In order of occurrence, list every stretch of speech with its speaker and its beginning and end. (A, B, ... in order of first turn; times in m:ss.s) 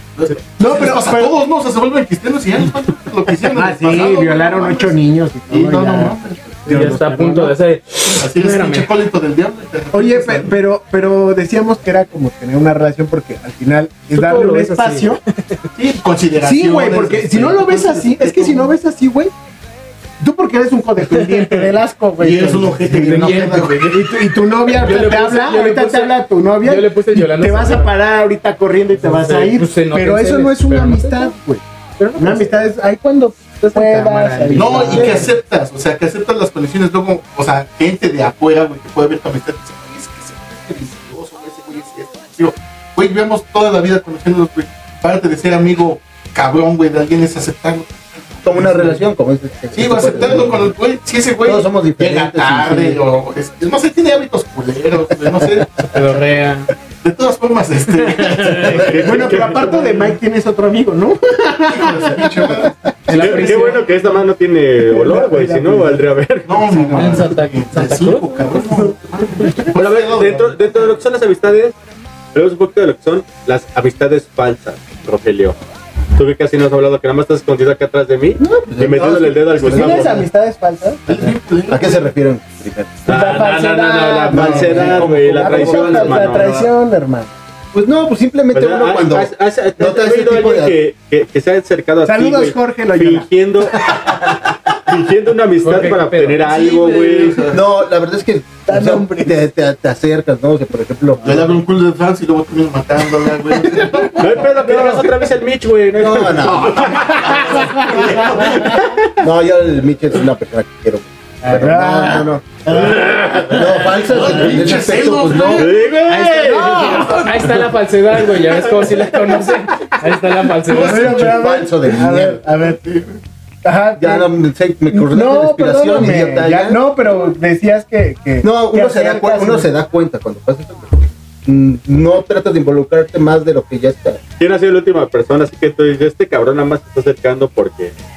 0:00.2-0:07.0 A
0:00.6-0:01.4 B
0:03.4-0:07.6 B
0:06.7-0:08.9 C
0:08.2-0:10.5 A
0:09.9-0:15.2 B
0:14.1-0:15.6 C
0:15.8-0:18.7 A
0:16.4-0:19.3 B
0:20.2-0:31.6 B
0:21.1-0:21.7 C
0:22.2-0:23.9 A
0:23.0-0:27.9 C
0:28.9-0:31.3 C
0:32.0-0:32.7 C
0:32.2-0:35.3 B
0:33.6-0:35.4 C
0:34.5-0:47.9 A
0:48.4-0:50.7 D
0:48.5-0:48.9 A
0:49.7-0:55.7 A
0:51.4-0:53.0 D
0:55.9-0:56.7 C
0:57.0-0:59.2 A
0:58.1-0:58.8 C
0:58.7-0:59.7 E
0:58.9-1:03.8 B
1:01.7-1:02.7 A
1:03.1-1:03.9 C
1:03.2-1:06.9 E
1:04.8-1:06.1 B
1:06.4-1:10.9 A
1:06.7-1:07.2 B
1:06.9-1:08.5 C
1:09.8-1:11.8 E
1:12.3-1:15.6 E
1:16.2-1:20.2 E
1:18.4-1:20.3 D
1:19.7-1:21.1 B
1:21.1-1:22.1 A
1:21.7-1:23.1 D
1:23.1-1:26.7 E
1:23.1-1:27.4 B
1:24.3-1:26.4 D
1:26.0-1:26.6 A
1:27.7-1:30.8 D
1:28.5-1:34.1 E
1:32.0-1:34.0 B
1:34.9-1:37.6 E
1:35.6-1:37.4 C
1:36.8-1:37.6 A
1:37.5-1:41.6 D
1:38.7-1:39.4 B
1:41.2-1:44.2 A
1:44.2-1:47.0 E
1:44.6-1:45.1 B
1:46.0-1:47.0 D
1:46.4-1:48.8 A
1:48.0-1:48.6 B
1:49.2-1:55.7 D
1:51.4-1:53.4 B
1:53.0-1:53.7 E
1:53.9-1:55.8 A
1:55.5-1:57.1 E
1:56.1-1:57.5 B
1:56.5-2:01.3 C
2:00.7-2:02.8 B
2:00.8-2:02.4 D
2:03.6-2:04.3 B
2:04.0-2:06.8 D
2:04.9-2:09.7 B
2:08.4-2:14.2 D
2:14.4-2:17.9 E